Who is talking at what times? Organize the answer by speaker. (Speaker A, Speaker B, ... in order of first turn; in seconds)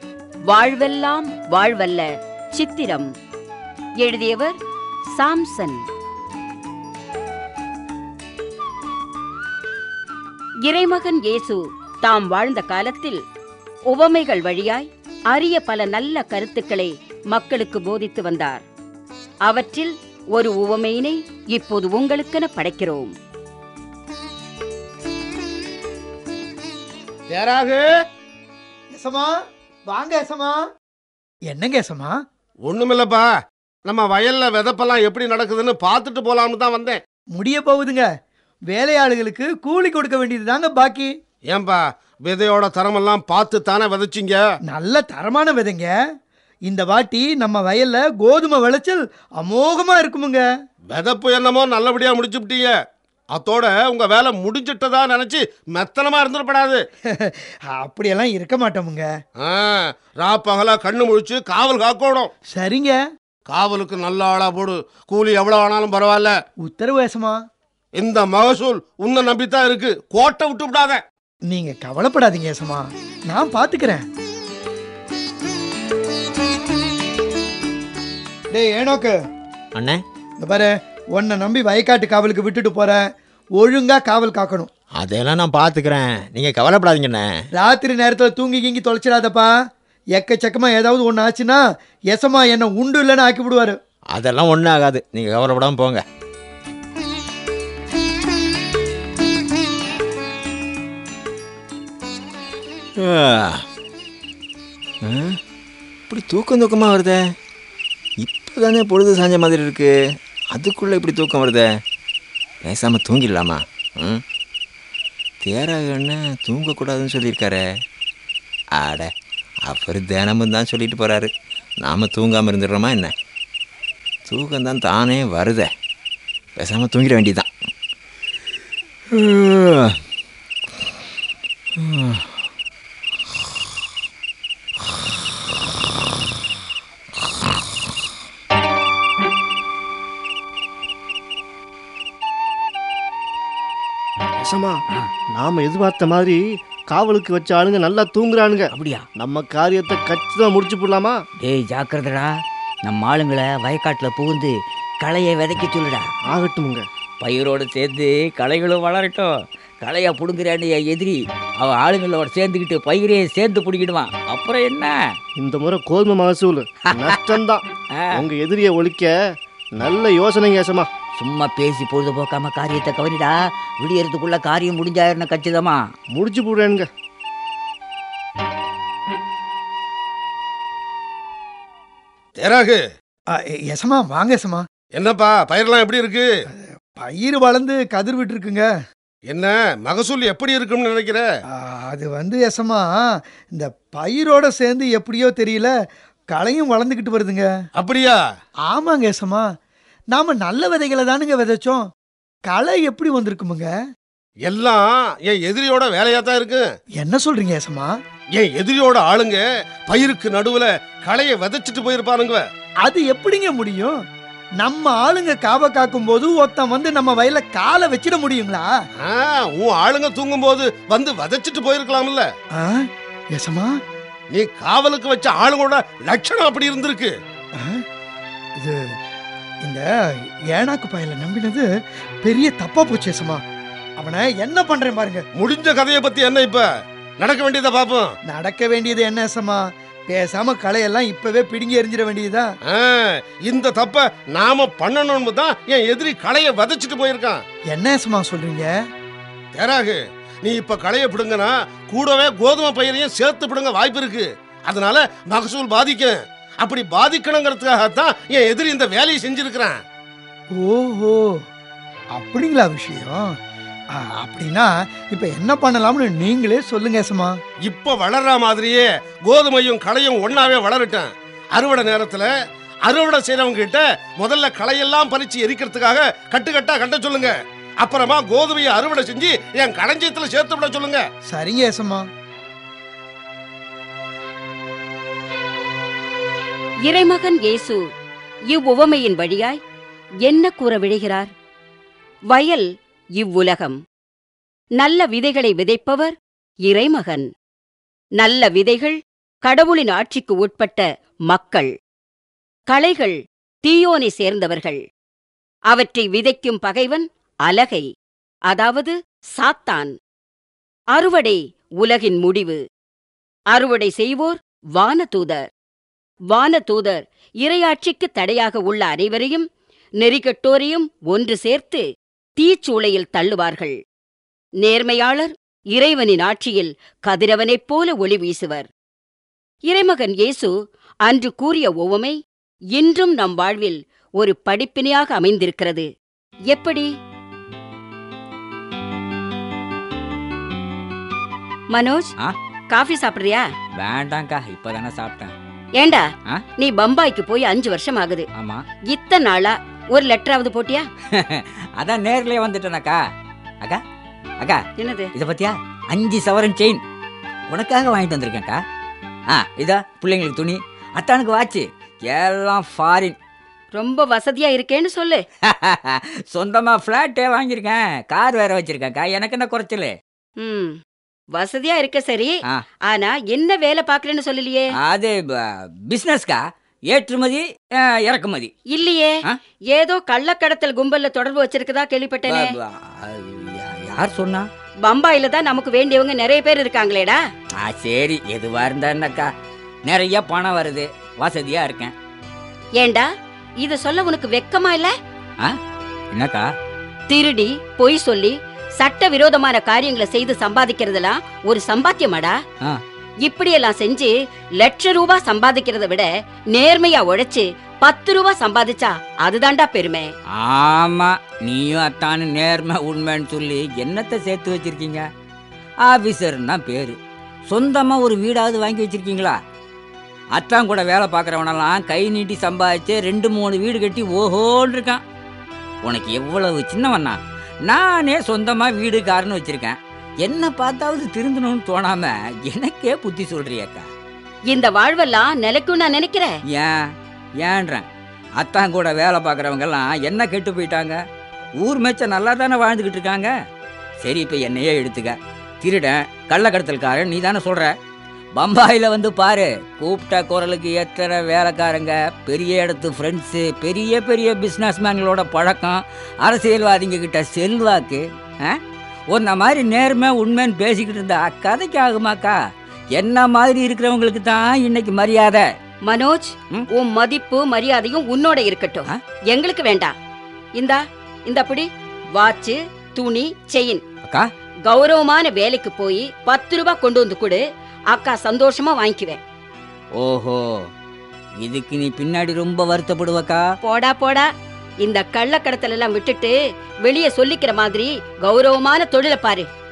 Speaker A: 0.5-3.1, 4.0-4.5, 5.2-5.8, 10.7-13.2, 13.9-18.6, 19.4-23.1, 286.9-287.8, 288.5-289.6, 290.2-291.3, 292.3-292.6, 293.2-293.8, 294.8-296.1, 296.7-297.3, 298.2-301.7, 302.7-304.8, 305.7-307.9, 308.5-309.9, 310.9-312.6, 313.5-315.5, 316.3-319.4, 320.0-321.8, 322.4-323.7, 324.6-328.7, 329.7-330.5, 331.1-332.1, 332.8-335.9, 336.5-336.9, 341.7-342.1, 342.7-343.4, 345.8-346.0, 346.6-348.2, 348.9-350.9, 354.8-355.1, 363.7-365.2, 370.4-370.8, 371.3-374.7, 378.7-379.1, 379.7-382.5, 384.8-387.2, 392.8-393.1, 393.6-394.9, 397.1-402.4, 403.2-410.1, 434.5-436.3, 465.9-469.9, 470.6-473.8, 474.7-479.2, 483.6-484.2, 484.8-486.3, 486.9-489.5
Speaker B: 27.3-27.8, 32.7-33.3, 33.9-37.0, 41.5-44.4, 50.9-52.7, 53.3-56.8, 59.4-62.3, 63.5-66.3, 68.0-71.0, 182.4-182.8, 184.9-186.3, 189.3-191.2, 197.8-198.2, 204.4-206.6, 208.3-212.4, 219.0-222.3, 224.3-227.1, 235.4-236.6, 237.2-238.1, 242.7-247.4, 249.5-259.7, 267.7-272.3, 272.9-281.0
Speaker C: 28.9-29.3, 29.9-30.6, 31.5-32.2, 37.3-38.0, 38.7-41.1, 44.7-45.9, 46.7-50.4, 57.1-59.1, 62.5-63.0, 66.6-67.4, 71.5-74.0, 78.5-79.1, 80.4-83.0, 83.6-84.7, 87.5-89.5, 90.2-91.6, 92.1-93.8, 183.3-184.6, 186.6-188.7, 191.5-193.0, 193.5-195.7, 196.3-197.5, 198.7-199.4, 200.1-201.8, 202.5-203.7, 207.0-207.9, 212.8-214.0, 214.6-218.7, 222.6-223.7, 230.5-231.6, 232.2-233.4, 234.0-235.2, 238.3-242.5, 247.7-248.7, 260.6-261.2, 262.1-263.3, 264.0-267.3, 281.3-282.0
Speaker D: 79.7-80.0, 84.9-87.4, 94.1-96.0, 103.0-103.6, 105.0-105.4, 106.1-107.3, 108.2-111.8, 112.6-114.2, 115.4-117.7, 118.7-119.1, 119.6-123.1, 124.3-125.7, 126.5-127.5, 129.1-130.0, 131.8-132.3
Speaker E: 144.4-144.8, 145.3-151.2, 156.2-156.9, 165.4-167.6, 168.2-169.2, 169.8-170.9, 176.1-176.9
Speaker F: 148.7-149.0, 151.4-152.3, 152.8-156.0, 157.2-159.3, 159.8-165.0, 171.2-175.8, 343.8-345.3, 348.4-348.6, 351.1-353.0, 355.1-356.8, 357.5-358.6, 359.3-363.1, 365.5-369.9, 374.8-376.4, 376.9-378.5, 382.3-384.4, 387.6-389.3, 389.9-391.9, 396.1-396.5, 410.4-415.0, 415.9-417.0, 417.5-419.4, 420.4-425.0, 425.8-433.9, 437.4-437.8, 438.4-441.0, 441.6-443.3, 444.0-447.7, 448.4-458.6, 459.1-462.4, 462.9-465.4, 480.0-480.4, 481.4-483.4